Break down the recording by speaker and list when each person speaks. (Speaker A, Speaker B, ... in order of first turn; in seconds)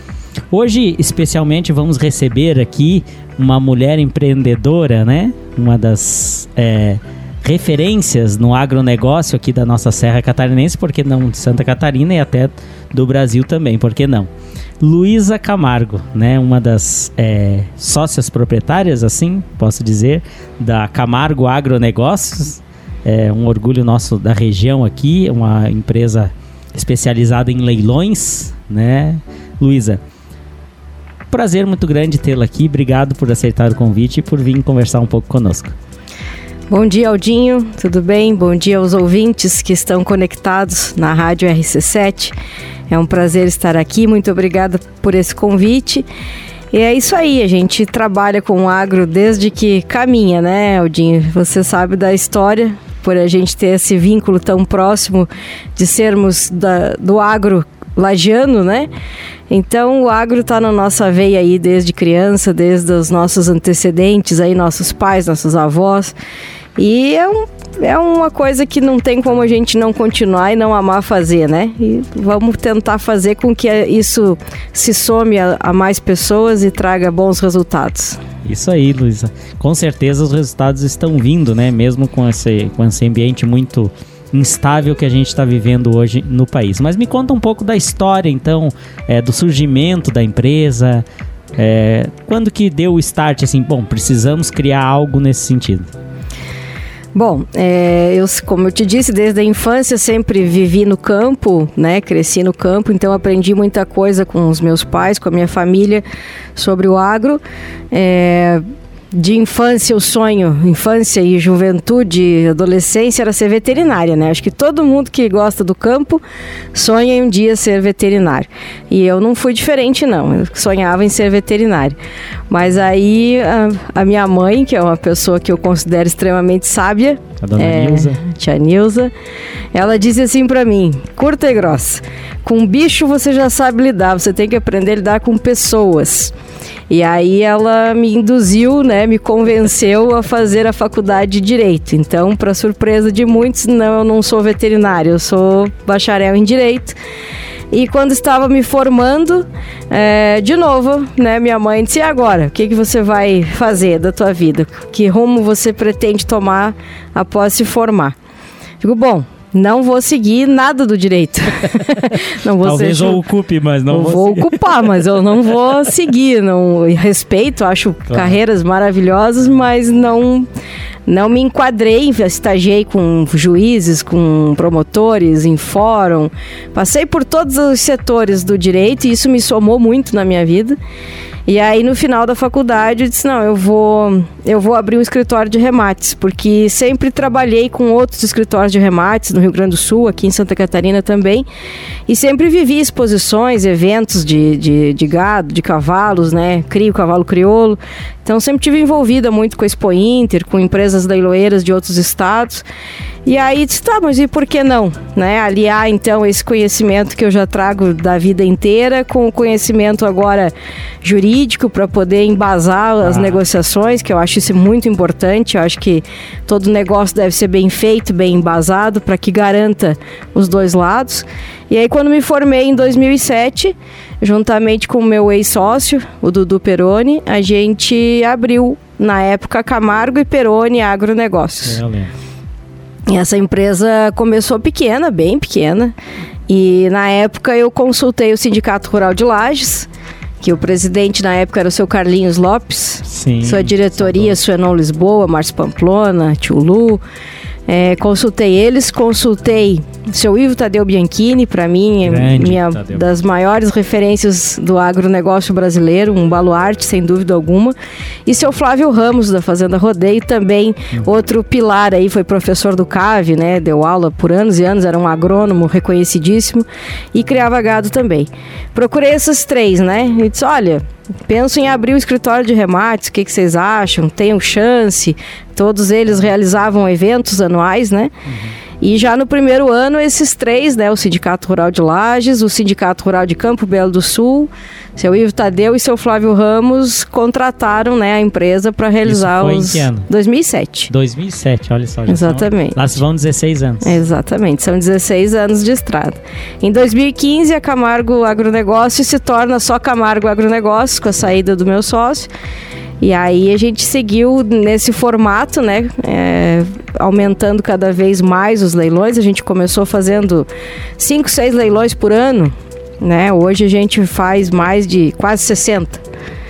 Speaker A: 0.5-14.3, 14.8-30.0, 31.3-35.7, 78.4-91.0, 91.5-95.9, 127.4-128.2, 162.1-164.9, 168.1-168.4, 213.0-213.4, 231.6-232.1, 243.0-244.3, 252.0-253.1, 289.0-290.1, 290.9-293.9
Speaker B: 36.7-42.3, 42.9-46.0, 46.7-58.9, 59.5-66.1, 66.8-78.2, 97.1-106.0, 106.5-108.6, 109.1-116.2, 116.7-122.0, 122.5-129.1, 129.7-136.3, 136.9-147.0, 147.7-158.2, 158.8-163.2, 163.9-170.5, 171.1-180.8, 181.4-191.4, 192.1-202.7, 203.2-231.8, 233.1-235.9, 236.5-239.9, 240.4-247.0, 247.7-257.7, 258.2-278.1, 278.8-290.9, 292.1-292.9, 293.8-302.3, 303.0-310.5, 311.0-316.0